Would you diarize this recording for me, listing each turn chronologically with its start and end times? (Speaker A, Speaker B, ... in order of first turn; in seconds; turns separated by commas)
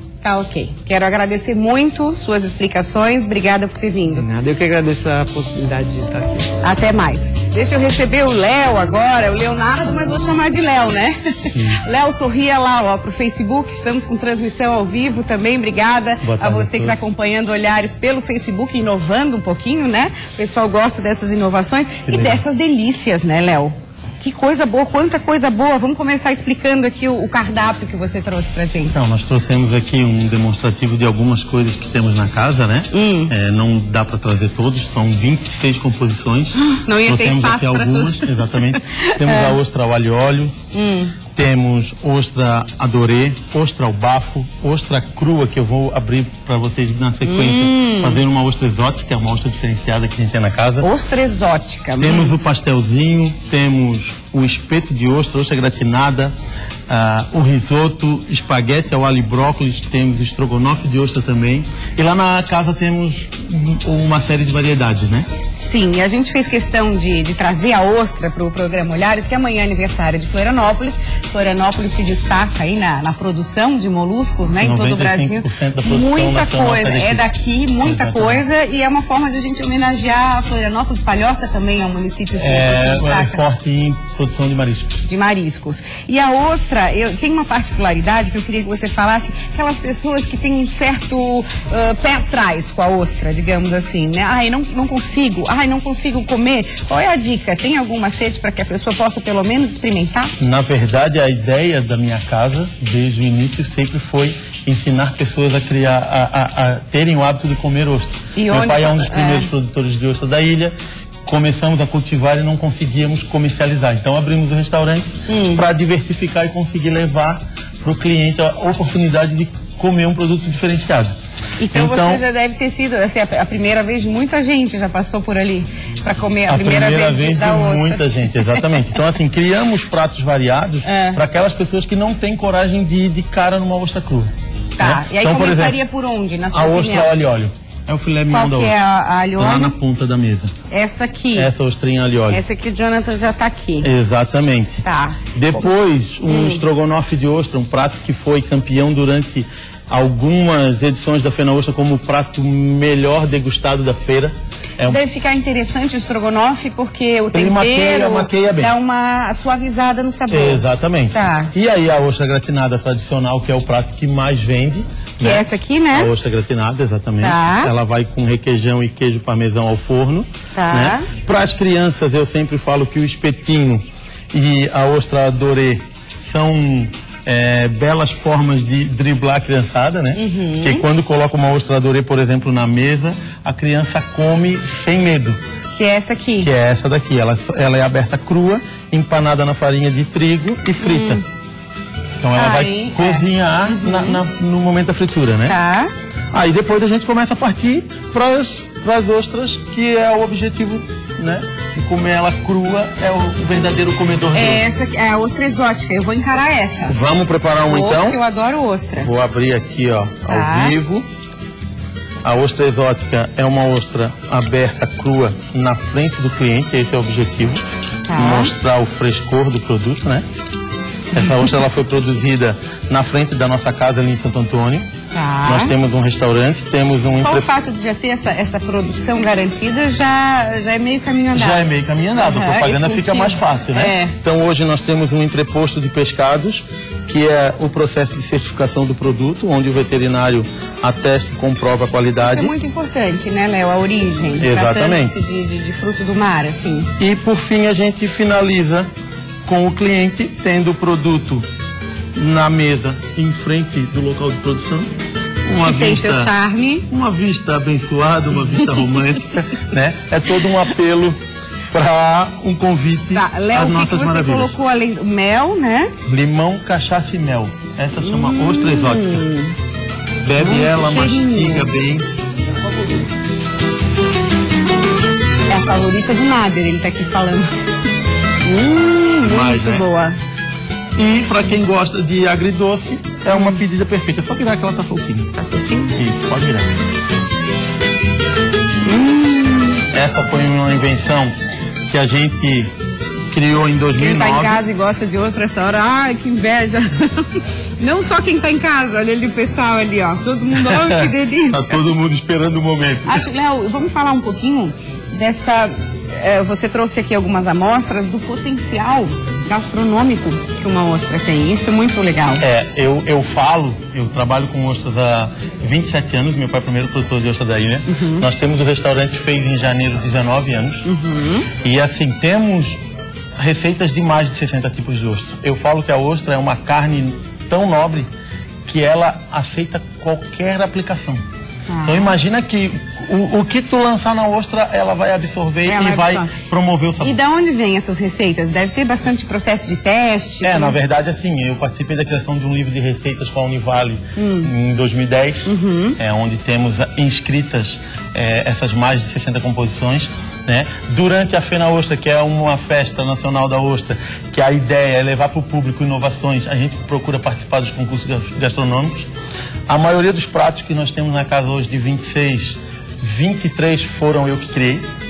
Speaker A: 0.2-4.3, Speaker B: 4.1-6.5, Speaker A: 6.6-28.9, Speaker C: 11.5-11.8, Speaker C: 16.2-17.0, Speaker C: 22.1-22.4, Speaker C: 28.9-40.5, Speaker A: 32.9-33.3, Speaker A: 36.7-39.6, Speaker A: 40.7-41.1, Speaker C: 41.4-50.9, Speaker A: 47.2-48.2, Speaker A: 50.8-52.4, Speaker C: 52.0-56.3, Speaker C: 56.9-65.3, Speaker A: 65.6-83.4, Speaker C: 74.6-77.3, Speaker C: 77.8-78.5, Speaker C: 82.4-85.0, Speaker A: 85.0-100.3, Speaker C: 100.4-110.8, Speaker A: 108.4-109.5, Speaker C: 111.3-121.2, Speaker A: 115.3-115.7, Speaker A: 121.6-128.6, Speaker C: 121.7-122.2, Speaker C: 126.5-135.8, Speaker A: 130.8-131.2, Speaker A: 134.8-137.1, Speaker C: 136.5-138.7, Speaker A: 138.3-139.7, Speaker C: 139.4-140.5, Speaker A: 140.7-141.5, Speaker C: 141.3-142.4, Speaker A: 142.3-143.9, Speaker C: 143.8-144.8, Speaker A: 144.8-145.2, Speaker C: 145.3-155.0, Speaker A: 146.3-146.6, Speaker A: 154.9-161.5, Speaker C: 157.3-158.7, Speaker C: 160.3-185.4, Speaker A: 165.2-166.1, Speaker A: 167.2-167.7, Speaker A: 170.6-171.1, Speaker A: 180.2-180.8, Speaker A: 185.8-186.5, Speaker C: 186.4-191.2, Speaker A: 190.8-191.2, Speaker C: 192.2-195.6, Speaker A: 192.4-194.2, Speaker A: 195.5-195.9, Speaker C: 196.3-204.6, Speaker A: 204.3-207.0, Speaker C: 206.9-208.2, Speaker A: 207.7-209.1, Speaker C: 209.0-211.1, Speaker A: 210.3-210.8, Speaker C: 212.2-217.6, Speaker A: 218.1-218.5, Speaker C: 218.1-220.3, Speaker C: 221.1-224.9, Speaker A: 225.1-225.7, Speaker C: 225.4-227.5, Speaker A: 227.1-234.2, Speaker C: 231.3-242.5, Speaker A: 242.2-246.9, Speaker C: 244.4-245.2, Speaker C: 247.0-248.9, Speaker C: 249.5-251.5, Speaker C: 252.2-254.9, Speaker C: 255.4-256.3, Speaker A: 255.6-256.9, Speaker C: 256.9-261.2, Speaker C: 261.7-264.6, Speaker A: 263.1-265.9, Speaker C: 266.1-269.3, Speaker A: 268.0-269.6, Speaker C: 270.2-272.1, Speaker A: 270.4-271.7, Speaker A: 275.5-277.6, Speaker A: 278.4-280.2, Speaker C: 279.3-279.9, Speaker C: 281.0-285.4, Speaker A: 285.4-285.9, Speaker C: 285.9-286.7, Speaker A: 288.8-289.8, Speaker C: 289.9-291.4, Speaker C: 291.9-292.7, Speaker C: 293.3-294.6, Speaker A: 294.0-297.3, Speaker A: 297.8-301.8, Speaker C: 300.6-303.2, Speaker A: 303.1-312.4, Speaker C: 312.4-320.9, Speaker A: 317.9-318.3, Speaker A: 320.9-321.5, Speaker C: 321.6-322.8, Speaker C: 323.4-328.1, Speaker C: 328.7-331.2, Speaker A: 331.7-332.1, Speaker C: 331.9-337.2, Speaker A: 335.7-336.3, Speaker A: 337.0-340.8, Speaker C: 340.4-359.1, Speaker A: 344.2-344.5, Speaker A: 345.5-346.0, Speaker C: 359.7-364.9